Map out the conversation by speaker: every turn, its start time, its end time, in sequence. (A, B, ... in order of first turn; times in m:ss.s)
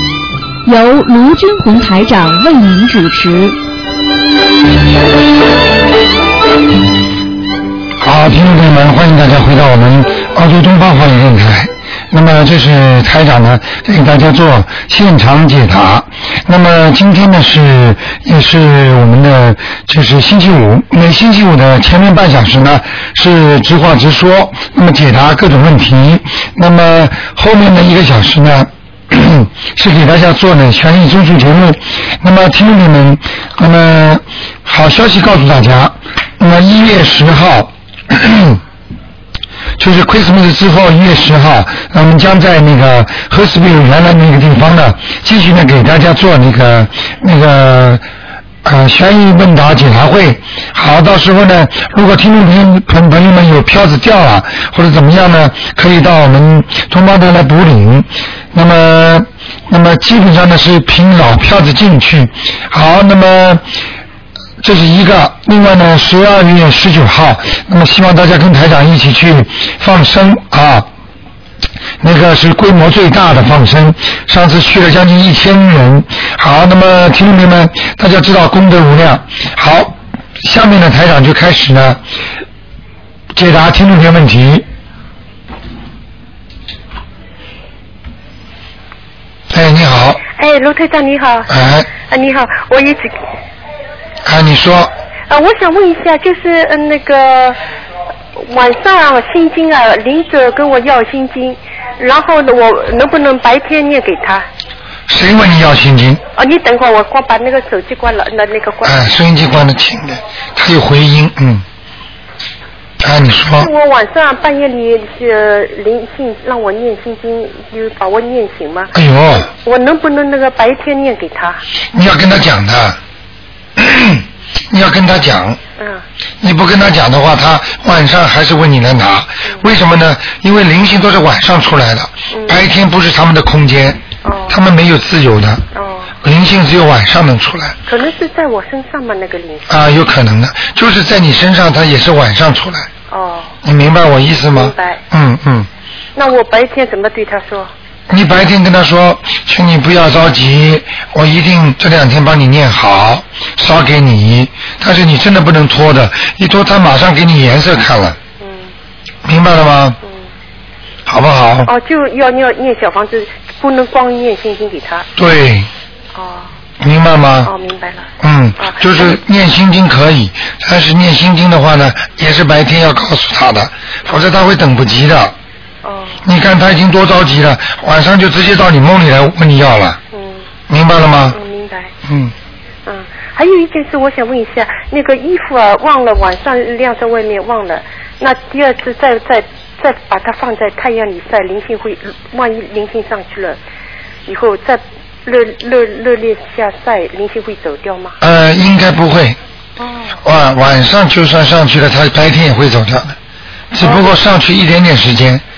0:00.6-0:03.6 A
0:08.0-0:38.6 B
0:39.8-0:48.0 B
0:48.6-1:03.6 B
1:04.6-1:10.9 B
1:12.0-1:22.0 B
1:23.3-1:24.6 B
1:29.5-1:30.2 B
1:30.4-1:31.5 C
1:31.5-1:31.9 B
1:32.1-1:33.2 C
1:34.2-1:34.9 B
1:35.3-1:37.6 C
1:38.4-1:44.5 C
1:45.1-1:46.2 B
1:46.4-1:49.0 C
1:48.8-1:51.6 B
1:53.0-1:53.7 B
1:53.6-1:58.9 C
1:58.9-1:59.5 B
1:59.4-2:01.6 C
2:01.9-2:03.0 B
2:03.8-2:05.6 B
2:05.8-2:06.0 C
2:06.4-2:15.6 B
2:12.3-2:12.6 C
2:14.2-2:14.6 C
2:15.7-2:16.1 C
2:16.2-2:17.8 B
2:17.9-2:19.9 C
2:19.7-2:22.9 B
2:23.1-2:23.6 C
2:23.6-2:25.7 B
2:24.5-2:25.0 C
2:26.2-2:27.7 C
2:28.1-2:38.2 B
2:38.4-2:38.7 C
2:39.2-2:40.0 B
2:41.0-2:41.7 B
2:41.6-2:45.1 C
2:45.2-2:45.7 B
2:46.1-2:46.5 C
2:46.8-2:47.5 B
2:47.4-2:48.1 C
2:48.2-2:55.3 B
2:48.6-2:49.2 C
2:55.8-2:56.2 C
2:56.2-3:00.0 B
3:00.1-3:00.5 C
3:00.7-3:01.4 B
3:01.3-3:01.9 C
3:02.0-3:02.3 B
3:02.8-3:13.6 C
3:14.2-3:18.2 C
3:18.2-3:19.4 B
3:19.8-3:20.2 C
3:20.2-3:23.2 B
3:23.7-3:25.4 B
3:23.8-3:24.1 C